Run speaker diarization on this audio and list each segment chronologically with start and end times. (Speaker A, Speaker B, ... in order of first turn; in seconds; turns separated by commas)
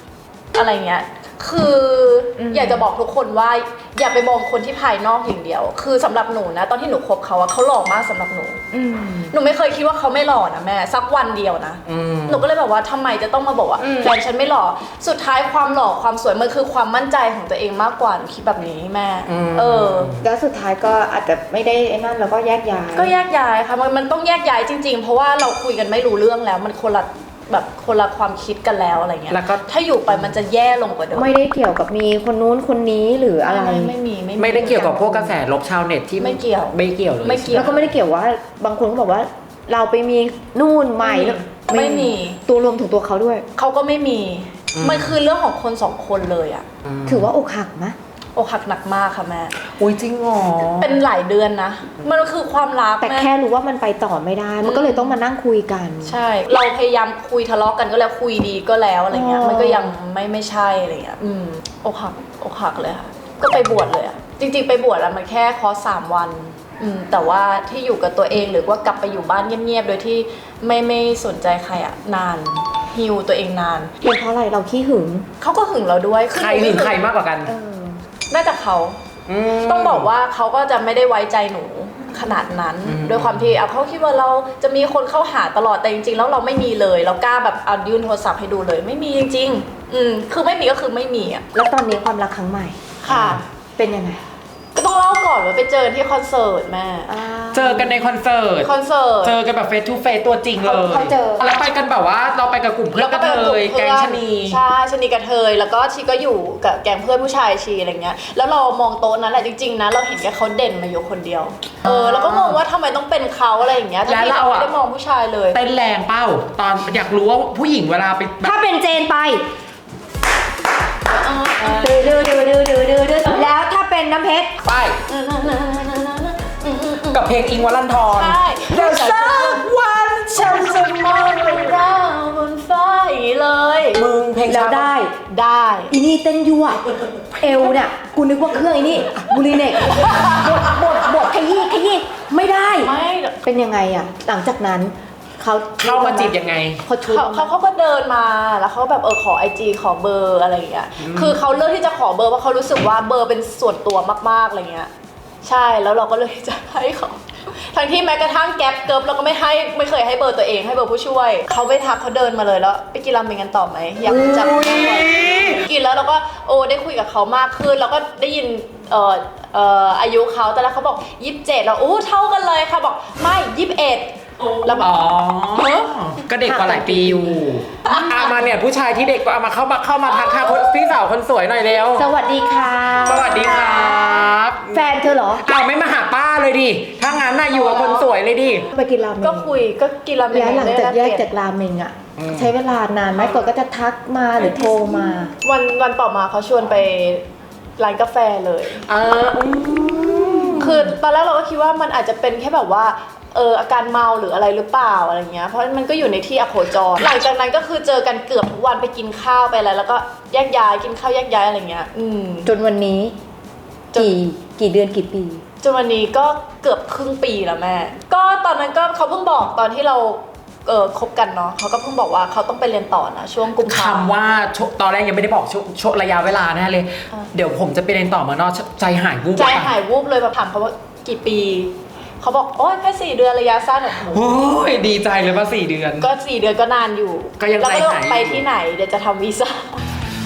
Speaker A: 0.5-8.6, Speaker B: 2.4-2.8, Speaker B: 8.7-9.3, Speaker A: 9.3-20.1, Speaker C: 11.9-12.4, Speaker B: 13.8-14.1, Speaker C: 19.3-20.2, Speaker B: 20.2-23.1, Speaker A: 22.9-31.3, Speaker C: 29.3-30.3, Speaker B: 31.1-33.9, Speaker A: 33.4-35.3, Speaker C: 34.4-37.9, Speaker A: 36.2-37.8, Speaker B: 37.5-43.5, Speaker A: 41.0-42.4, Speaker A: 43.5-46.6, Speaker C: 44.7-45.1, Speaker C: 46.9-47.3, Speaker B: 47.0-48.0, Speaker A: 48.3-49.5, Speaker C: 49.7-51.0, Speaker A: 50.8-53.3, Speaker B: 53.0-56.2, Speaker A: 54.6-55.2, Speaker A: 56.0-73.9, Speaker B: 59.1-60.0, Speaker B: 74.0-75.3, Speaker A: 75.4-77.0, Speaker C: 76.3-77.5, Speaker B: 77.4-78.0, Speaker A: 78.3-91.4, Speaker C: 79.3-80.1, Speaker C: 82.8-83.5, Speaker B: 91.5-92.8, Speaker A: 93.0-93.4, Speaker C: 93.1-93.4, Speaker B: 93.8-94.2, Speaker A: 94.7-97.1, Speaker B: 97.1-98.0, Speaker C: 97.5-98.7, Speaker A: 98.6-99.3, Speaker C: 99.2-104.6, Speaker B: 100.6-101.4, Speaker A: 103.0-115.6, Speaker C: 111.8-112.6, Speaker C: 114.0-114.7, Speaker C: 115.5-118.5, Speaker B: 118.4-119.5, Speaker A: 121.1-122.1, Speaker B: 121.6-124.5, Speaker C: 124.6-125.0, Speaker A: 125.1-127.3, Speaker C: 127.1-129.5, Speaker A: 128.1-134.0, Speaker B: 128.7-131.0, Speaker C: 133.9-134.9, Speaker B: 134.4-135.1, Speaker A: 135.3-135.9, Speaker B: 135.9-136.8, Speaker B: 137.3-142.9, Speaker A: 139.8-140.5, Speaker A: 142.8-143.4, Speaker B: 143.4-147.5, Speaker C: 145.8-146.8, Speaker A: 147.0-154.9, Speaker C: 151.0-151.4, Speaker A: 155.4-174.1, Speaker C: 164.1-165.6, Speaker B: 164.4-164.8, Speaker C: 174.5-182.1, Speaker A: 174.6-174.9, Speaker B: 176.5-177.3, Speaker B: 181.9-185.4, Speaker C: 182.9-184.8, Speaker C: 185.4-188.7, Speaker A: 187.5-188.1, Speaker B: 188.7-189.6, Speaker A: 189.2-191.3, Speaker B: 190.3-195.3, Speaker C: 192.2-192.5, Speaker A: 195.4-197.2, Speaker A: 197.8-198.8, Speaker C: 198.9-200.9, Speaker A: 200.6-212.5, Speaker B: 212.4-213.1, Speaker B: 213.9-215.4, Speaker A: 215.6-224.1, Speaker C: 223.7-229.7, Speaker A: 229.4-234.4, Speaker C: 234.1-236.1, Speaker A: 236.0-239.8, Speaker C: 237.4-238.4